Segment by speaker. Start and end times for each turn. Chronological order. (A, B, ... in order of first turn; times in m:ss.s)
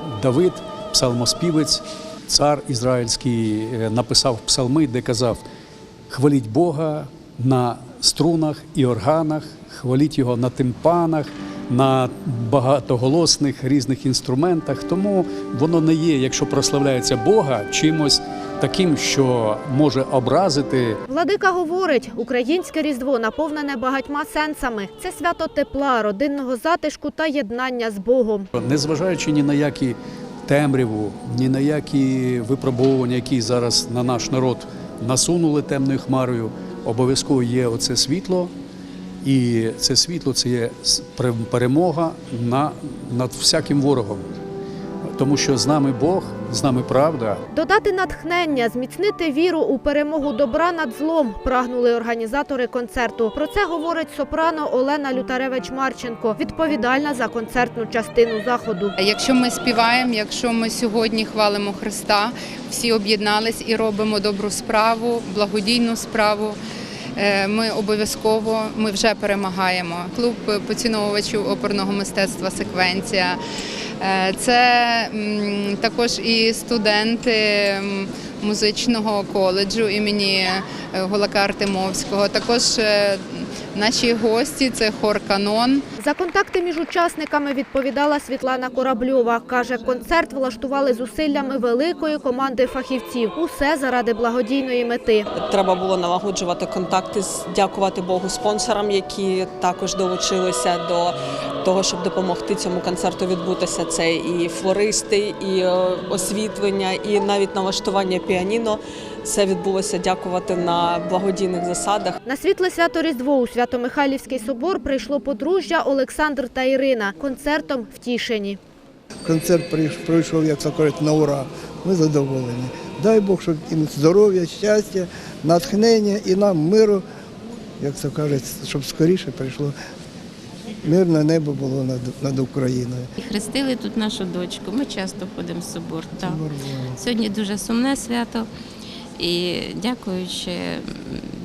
0:00.1-0:05.4 A
0:06.1-0:21.0 A
0:21.1-0:28.5 B
0:28.6-0:38.5 A
0:39.2-0:44.4 A
0:45.1-0:47.4 A
0:47.5-0:58.9 B
0:59.0-1:06.6 C
1:07.1-1:13.4 C
1:14.0-1:25.8 C
1:26.0-1:35.3 B
1:35.3-1:52.2 D
1:52.2-1:58.6 B
1:59.2-2:07.0 E
2:07.8-2:09.7 E
2:10.8-2:13.1 E
2:13.3-2:16.3 F
2:16.2-2:17.0 E
2:17.0-2:18.4 F
2:19.2-2:20.8 F